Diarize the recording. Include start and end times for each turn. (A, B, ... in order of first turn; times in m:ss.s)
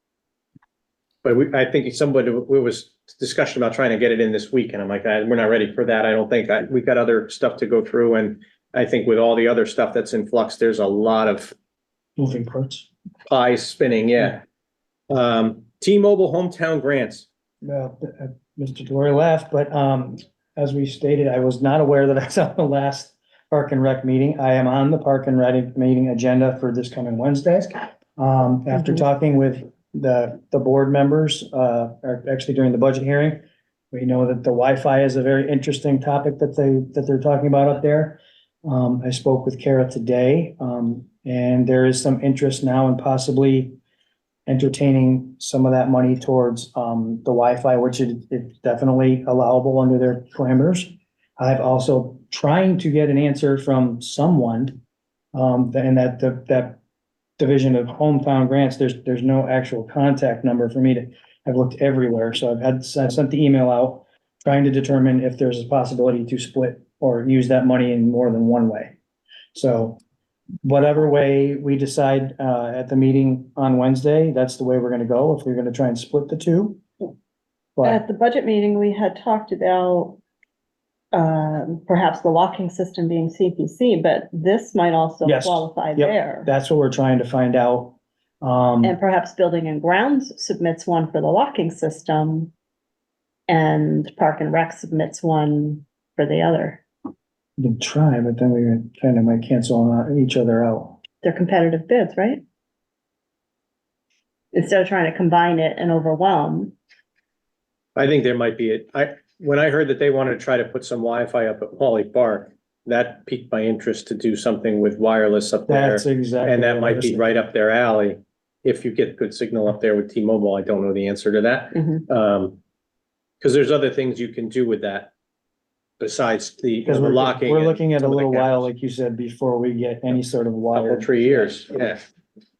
0:01.2-0:11.5 A
0:12.2-0:12.9 B
0:13.3-0:14.4 A
0:15.1-0:17.3 A
0:17.6-0:43.8 B
0:28.7-0:29.0 C
0:44.5-0:54.8 B
0:55.3-0:56.8 B
0:57.4-1:09.0 B
1:09.5-1:10.0 B
1:10.6-1:16.8 B
1:17.8-1:20.2 C
1:21.1-1:26.5 C
1:25.2-1:29.0 B
1:28.8-1:32.5 C
1:33.5-1:36.8 C
1:37.6-1:41.0 B
1:41.2-1:42.4 C
1:44.5-1:46.8 C
1:48.0-2:02.6 A
1:55.7-1:57.3 B
2:01.8-2:02.0 C
2:03.4-2:05.1 A
2:06.0-2:08.7 A
2:06.8-2:11.9 B
2:10.7-2:12.1 A